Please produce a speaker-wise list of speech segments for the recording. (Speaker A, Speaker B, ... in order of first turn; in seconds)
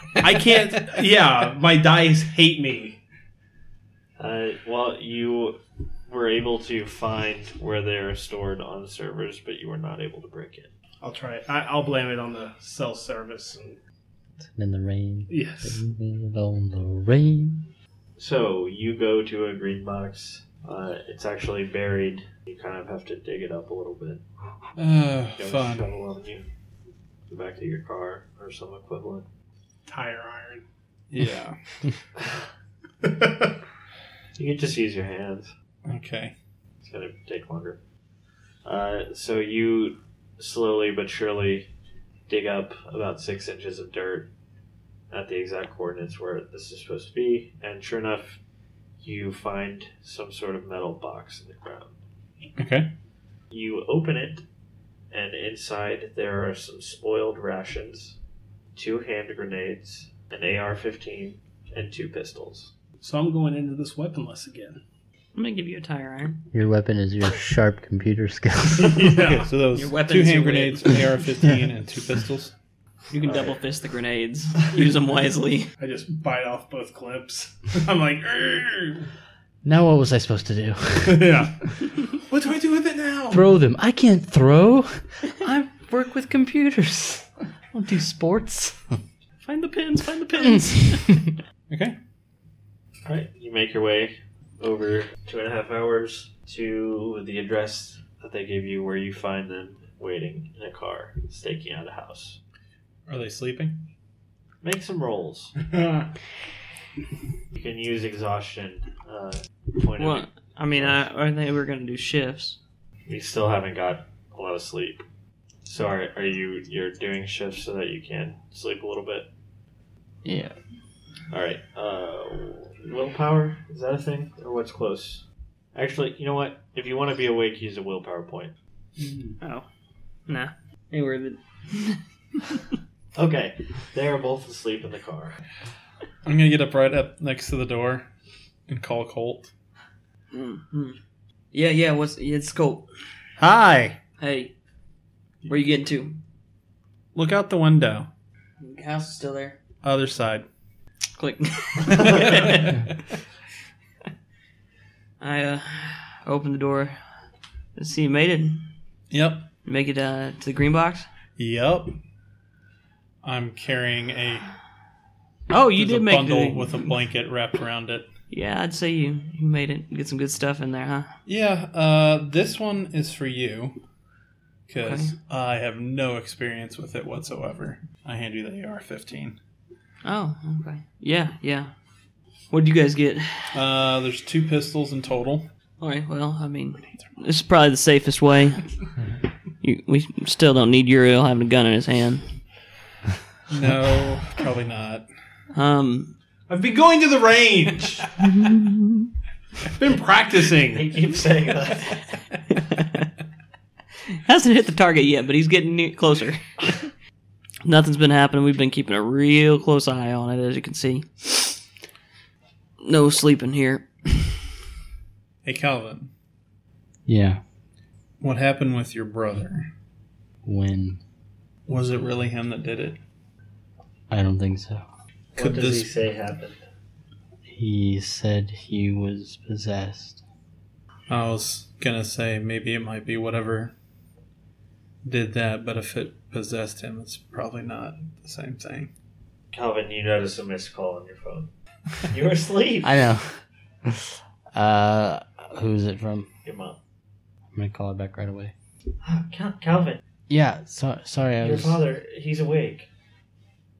Speaker A: 0.2-3.0, 11.0-13.8, 15.3-15.8, 29.9-30.6, 33.0-33.5, 63.0-64.8, 68.8-69.5, 75.8-79.1, 81.0-83.4, 105.7-106.1, 196.5-198.1, 199.7-200.9
Speaker B: 4.2-10.7, 18.2-24.2, 25.4-26.4, 27.3-29.2, 34.4-35.5, 36.8-37.8, 38.6-41.7, 42.3-44.3, 45.1-48.4, 49.0-52.0, 53.5-54.4, 55.1-58.2, 58.7-62.7, 73.2-73.5, 93.0-102.4, 104.6-105.5, 107.5-111.0, 113.0-115.0, 115.6-119.3, 121.3-128.5, 133.1-135.4, 200.7-202.0, 225.3-226.6, 239.5-241.5, 242.1-243.0, 246.4-246.8, 249.0-250.0, 251.4-252.9
Speaker C: 14.4-17.7, 66.5-69.4, 79.6-81.5, 83.3-89.0, 90.4-91.2, 120.2-120.5, 217.1-217.4, 220.4-221.0, 224.1-224.8, 227.4-230.2, 242.8-246.3, 247.5-248.5, 250.3-251.8
Speaker D: 24.8-25.9, 31.1-31.9, 35.9-36.3, 52.6-52.9, 69.4-72.5, 91.7-92.0, 103.1-103.8, 136.2-138.1, 138.7-139.5, 143.4-143.9, 147.1-148.1, 149.8-150.5, 152.0-152.8, 159.1-159.5, 161.4-161.9, 163.2-164.5, 165.8-168.1, 171.2-173.8, 174.7-179.4, 183.5-185.5, 193.5-195.1, 215.4-216.1, 218.2-219.7, 221.7-223.0, 225.4-225.9, 231.1-233.7, 235.0-238.9
Speaker E: 65.3-66.4, 69.7-70.9, 73.1-75.7, 89.4-91.2, 110.0-112.6, 129.4-129.7, 130.3-132.6, 140.3-141.0, 141.5-142.9, 144.2-144.5, 145.5-146.2, 148.6-149.6, 151.2-152.9, 155.2-157.0, 157.8-158.7, 159.6-161.1, 165.5-166.9, 168.3-171.1, 174.8-175.1, 180.0-181.7, 182.5-183.6, 185.8-188.7, 189.6-192.4, 195.5-196.1, 202.5-203.1, 204.2-206.8, 207.6-211.5, 212.8-214.4